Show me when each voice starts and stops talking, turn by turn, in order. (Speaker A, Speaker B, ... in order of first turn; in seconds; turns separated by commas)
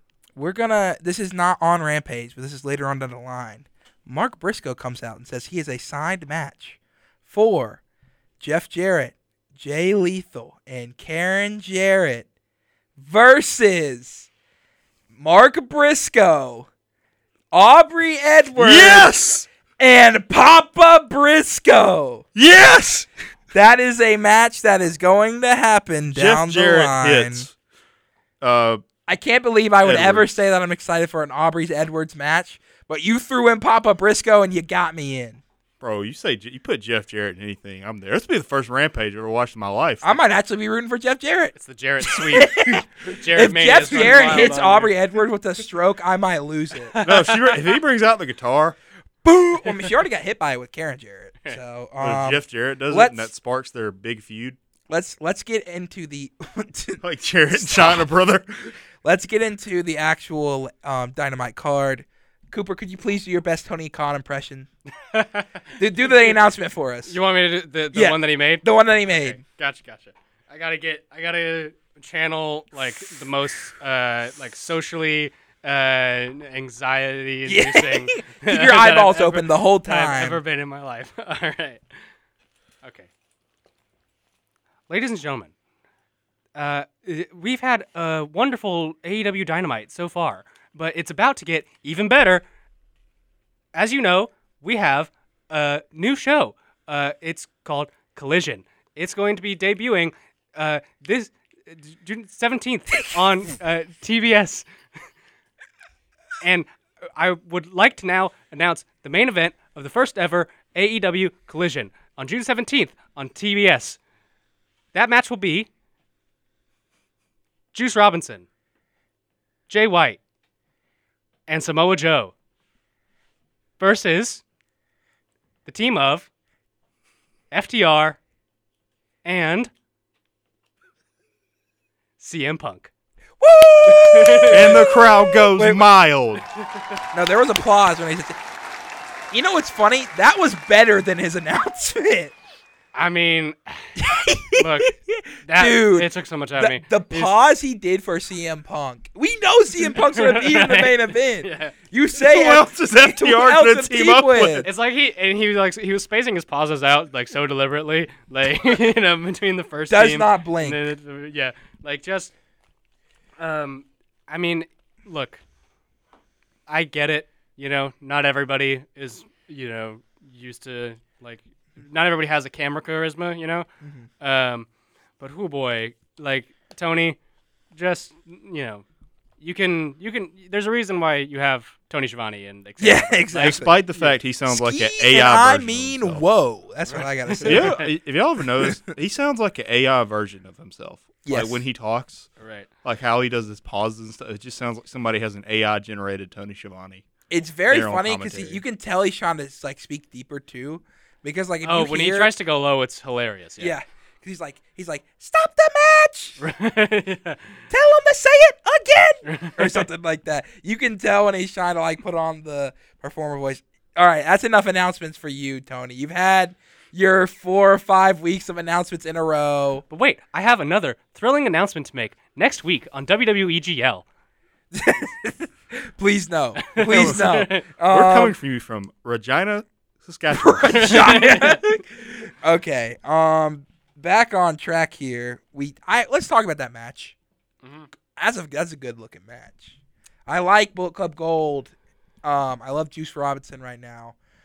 Speaker A: 0.4-7.8, Speaker A: 8.4-12.3, Speaker A: 13.0-14.3, Speaker A: 15.1-16.7, Speaker A: 17.5-19.1, Speaker B: 18.6-19.5, Speaker A: 19.8-22.2, Speaker B: 22.4-23.1, Speaker A: 23.5-27.5, Speaker B: 26.1-27.5, Speaker B: 28.4-28.8, Speaker A: 29.1-35.4, Speaker B: 29.8-30.3, Speaker B: 35.8-40.1, Speaker A: 40.0-47.0, Speaker C: 41.5-44.9, Speaker B: 43.9-44.5, Speaker C: 46.9-47.6, Speaker B: 47.0-48.8, Speaker A: 49.2-53.3, Speaker B: 52.0-54.6, Speaker A: 54.9-58.1, Speaker B: 57.0-58.7, Speaker A: 59.0-64.7, Speaker C: 65.0-66.4, Speaker A: 65.8-67.2, Speaker C: 67.1-81.8, Speaker A: 67.9-69.4, Speaker A: 77.5-80.4, Speaker C: 82.8-83.1, Speaker C: 84.9-85.5, Speaker C: 86.5-92.5, Speaker C: 93.7-104.7, Speaker C: 106.4-114.0, Speaker C: 114.9-115.7, Speaker C: 117.7-118.5, Speaker C: 119.7-120.2, Speaker C: 121.5-122.3, Speaker C: 123.8-124.4, Speaker C: 125.7-126.3, Speaker C: 127.5-128.2, Speaker C: 129.2-129.7, Speaker C: 132.2-132.9, Speaker A: 133.4-135.9, Speaker C: 133.9-134.9, Speaker B: 134.5-136.5, Speaker A: 137.1-138.4, Speaker A: 139.3-142.3, Speaker C: 142.9-147.3, Speaker A: 144.0-154.7, Speaker C: 149.9-151.7, Speaker B: 152.2-154.7, Speaker C: 154.6-162.3, Speaker A: 159.9-160.8, Speaker C: 163.4-165.4, Speaker C: 166.7-173.7, Speaker A: 173.8-174.1, Speaker C: 174.2-174.7, Speaker C: 175.2-177.2, Speaker C: 177.7-178.8, Speaker C: 179.4-184.2, Speaker A: 182.8-183.8, Speaker B: 183.3-186.2, Speaker A: 184.5-187.8, Speaker C: 186.9-187.9, Speaker B: 187.4-192.3, Speaker A: 191.2-191.6, Speaker C: 192.4-192.7, Speaker B: 192.8-197.1, Speaker A: 197.3-202.3, Speaker B: 197.7-198.6, Speaker C: 201.6-203.8, Speaker A: 203.6-206.4, Speaker C: 206.4-207.6, Speaker A: 207.7-219.8, Speaker C: 209.2-209.8, Speaker C: 219.9-224.1, Speaker A: 224.7-228.4, Speaker C: 226.6-227.7, Speaker B: 226.9-231.1, Speaker A: 230.3-237.2, Speaker C: 230.7-231.6, Speaker C: 237.6-237.9, Speaker A: 238.2-244.2